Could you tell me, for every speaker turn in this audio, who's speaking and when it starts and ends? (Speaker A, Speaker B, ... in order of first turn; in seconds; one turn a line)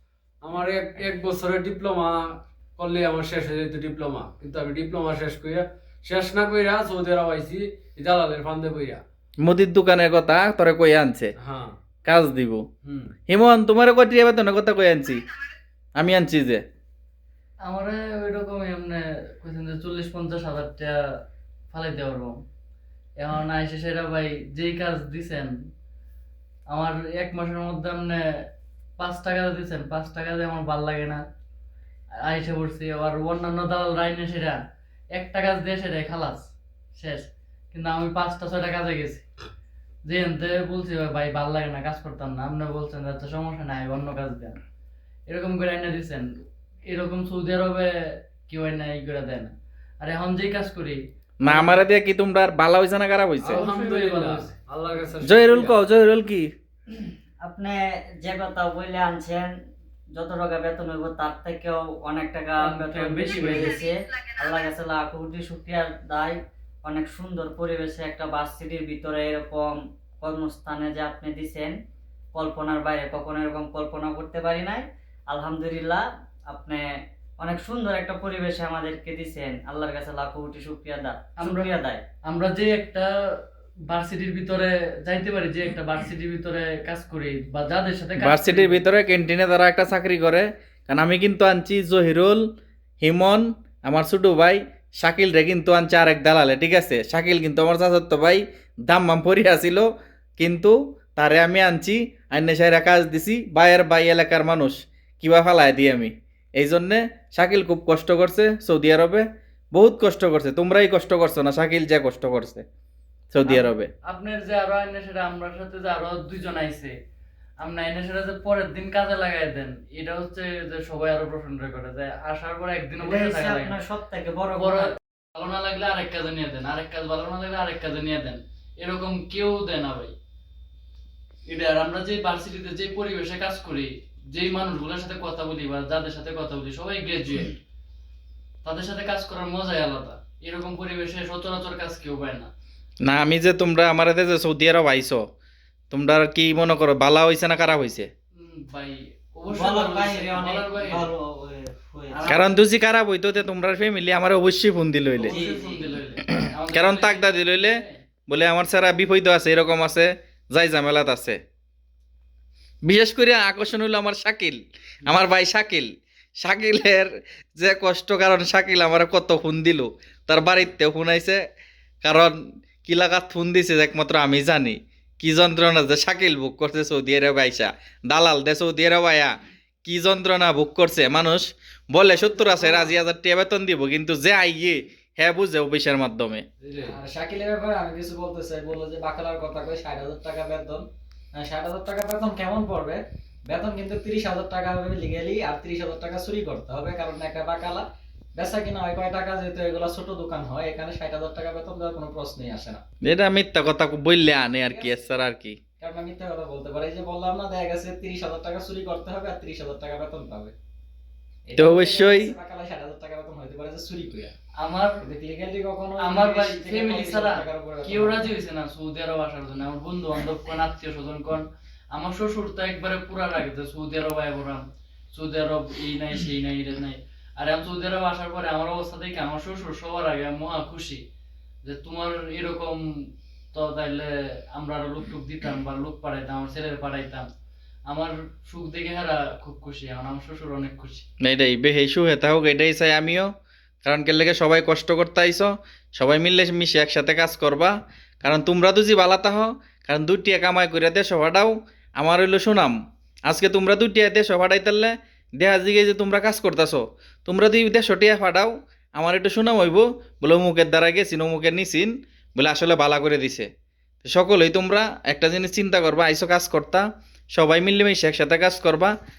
Speaker A: 0.4-2.2
Speaker A: 2.8-9.0
Speaker B: 9.4-11.3
Speaker A: 11.4-11.8
Speaker B: 12.1-12.7
Speaker A: 12.8-13.1
Speaker B: 13.3-15.2
Speaker B: 16.0-16.6
Speaker C: 17.6-21.0
Speaker C: 21.7-22.4
Speaker C: 23.2-25.6
Speaker C: 26.7-28.2
Speaker C: 29.0-31.2
Speaker C: 32.2-34.6
Speaker C: 35.1-39.2
Speaker C: 40.0-44.6
Speaker C: 45.3-46.3
Speaker C: 46.9-51.8
Speaker B: 51.4-53.6
Speaker C: 53.5-54.5
Speaker A: 53.5-55.8
Speaker B: 55.2-56.5
Speaker D: 56.9-59.5
Speaker D: 60.1-71.8
Speaker C: 62.6-63.8
Speaker D: 72.3-76.9
Speaker D: 77.4-82.0
Speaker C: 81.4-81.8
Speaker C: 82.3-83.1
Speaker C: 83.9-88.8
Speaker B: 88.2-92.4
Speaker B: 93.0-99.9
Speaker B: 100.4-112.7
Speaker B: 113.3-113.9
Speaker C: 113.5-116.9
Speaker C: 117.6-123.8
Speaker D: 123.0-125.0
Speaker C: 124.6-130.1
Speaker C: 131.4-137.6
Speaker C: 138.6-142.5
Speaker B: 143.1-145.2
Speaker B: 145.9-148.1
Speaker C: 148.3-151.1
Speaker D: 149.5-152.4
Speaker B: 152.3-155.4
Speaker C: 155.2-158.0
Speaker D: 155.3-156.0
Speaker B: 156.3-161.4
Speaker B: 162.8-165.9
Speaker B: 166.4-171.4
Speaker B: 172.0-186.4
Speaker E: 182.2-183.0
Speaker A: 186.6-187.0
Speaker E: 186.8-197.8
Speaker E: 198.4-202.8
Speaker B: 203.1-205.6
Speaker E: 204.7-205.0
Speaker E: 205.8-210.5
Speaker E: 211.5-214.3
Speaker B: 211.6-212.3
Speaker C: 214.6-215.0
Speaker E: 215.0-218.3
Speaker C: 216.0-231.0
Speaker C: 231.6-232.8
Speaker C: 233.5-237.3
Speaker C: 237.9-241.1
Speaker B: 241.2-243.3
Speaker B: 243.8-252.7
Speaker B: 253.3-263.5
Speaker B: 264.0-268.9